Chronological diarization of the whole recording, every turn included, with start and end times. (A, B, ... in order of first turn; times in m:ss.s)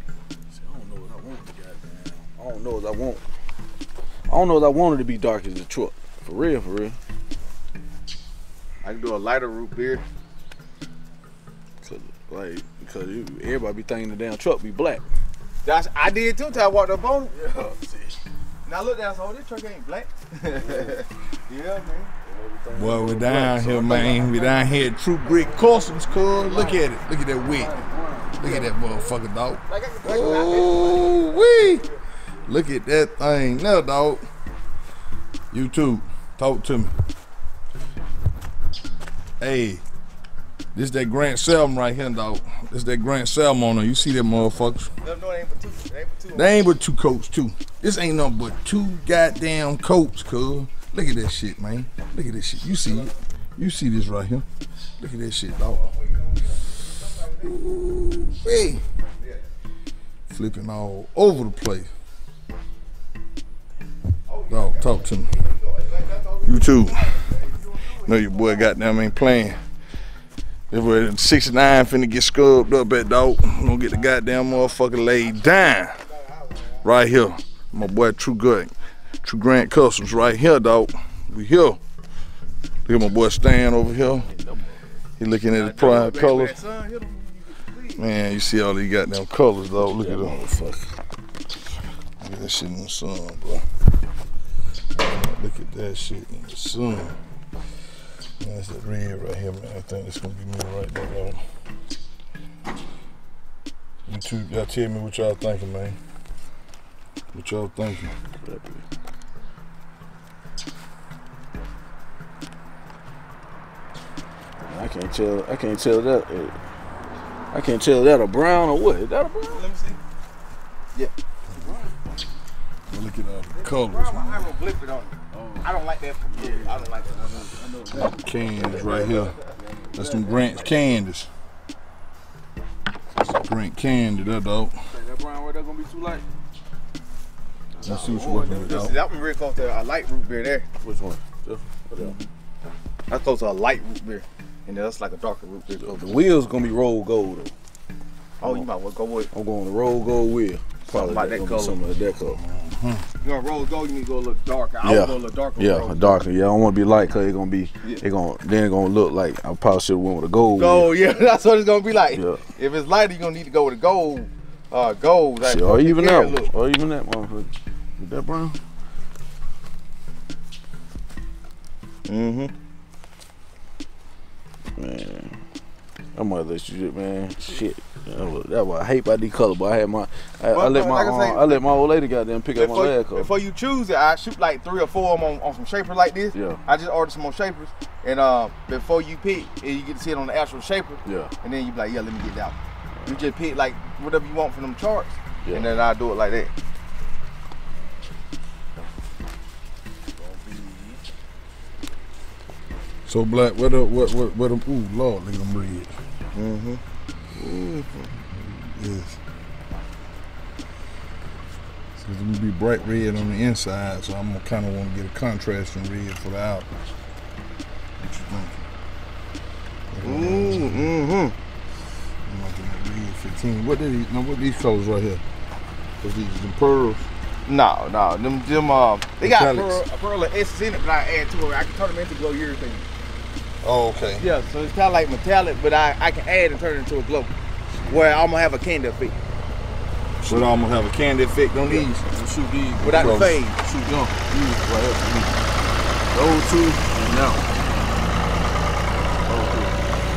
0:00.5-0:03.2 A
0:04.3-0:07.0 A
0:08.8-0:10.0 B
0:11.8-0:15.1 A
0:15.6-0:17.3 B
0:17.3-0:18.2 A
0:18.6-0:22.1 B
0:20.5-0:21.0 A
0:22.2-0:24.3 A
0:22.7-0:27.8 C
0:23.9-0:24.9 B
0:25.2-0:26.8 A
0:25.4-0:26.8 B
0:27.4-0:28.4 A
0:28.4-0:31.9 C
0:28.4-0:29.1 B
0:29.7-0:32.0 B
0:32.4-0:34.2 C
0:35.5-0:36.9 C
0:39.4-0:39.8 C
0:40.7-0:44.9 C
0:45.0-0:46.8 B
0:46.3-0:54.4 C
0:52.8-0:53.1 B
0:55.0-0:55.9 C
0:55.6-0:57.6 B
0:57.4-0:58.8 C
0:59.2-0:59.4 B
1:00.3-1:01.9 C
1:04.3-1:08.8 B
1:04.5-1:05.3 C
1:06.4-1:07.3 C
1:08.0-1:09.6 C
1:10.7-1:16.0 C
1:15.4-1:16.8 B
1:16.8-1:18.7 C
1:19.2-1:21.8 C
1:22.8-1:24.3 C
1:23.9-1:24.9 A
1:25.2-1:26.6 C
1:25.6-1:28.1 B
1:28.0-1:30.4 C
1:29.8-1:31.0 A
1:32.2-1:33.6 C
1:34.9-1:37.2 C
1:38.4-1:41.4 C
1:44.1-1:46.0 C
1:47.3-1:48.1 C
1:48.4-1:48.8 A
1:54.6-1:56.5 A
1:57.5-1:59.6 A
1:59.5-2:00.0 B
2:01.5-2:01.8 C
2:01.6-2:01.9 A
2:02.9-2:04.5 C
2:03.5-2:07.5 B
2:05.3-2:05.7 A
2:06.3-2:08.9 A
2:07.9-2:09.4 C
2:08.6-2:09.4 B
2:09.5-2:10.9 A
2:09.9-2:11.3 C
2:13.3-2:14.8 C
2:14.9-2:16.2 A
2:17.7-2:18.8 A
2:17.8-2:19.0 C
2:17.8-2:20.6 B
2:20.8-2:22.2 A
2:22.0-2:22.3 B
2:23.1-2:26.1 B
2:25.8-2:27.5 A
2:28.4-2:28.7 A
2:28.4-2:29.3 B
2:29.3-2:32.4 A
2:30.9-2:31.8 B
2:32.1-2:33.1 C
2:33.2-2:36.2 B
2:34.8-2:41.0 A
2:40.6-2:46.5 B
2:42.1-2:42.4 A
2:45.4-2:48.6 A
2:52.0-2:52.5 B
2:54.8-2:55.4 A
2:56.1-3:03.3 A
3:00.5-3:01.6 B
3:02.5-3:16.5 B
3:06.3-3:06.6 A
3:11.0-3:11.3 A
3:20.2-3:21.0 A
3:23.0-3:25.9 C
3:26.3-3:26.8 B
3:27.3-3:28.1 B
3:28.2-3:29.2 C
3:32.0-3:36.7 C
3:38.0-3:38.6 C
3:39.9-3:40.9 C
3:40.0-3:41.4 B
3:42.2-3:45.2 C
3:46.0-3:47.1 C
3:47.4-3:52.9 B
3:49.2-3:49.8 C
3:53.6-3:54.2 C
3:54.2-3:57.3 B
3:57.8-3:58.1 A
3:57.8-3:59.2 B
4:00.2-4:02.0 C
4:01.6-4:05.5 A
4:02.8-4:03.6 B
4:02.8-4:03.4 C
4:06.1-4:07.5 A
4:09.2-4:09.8 A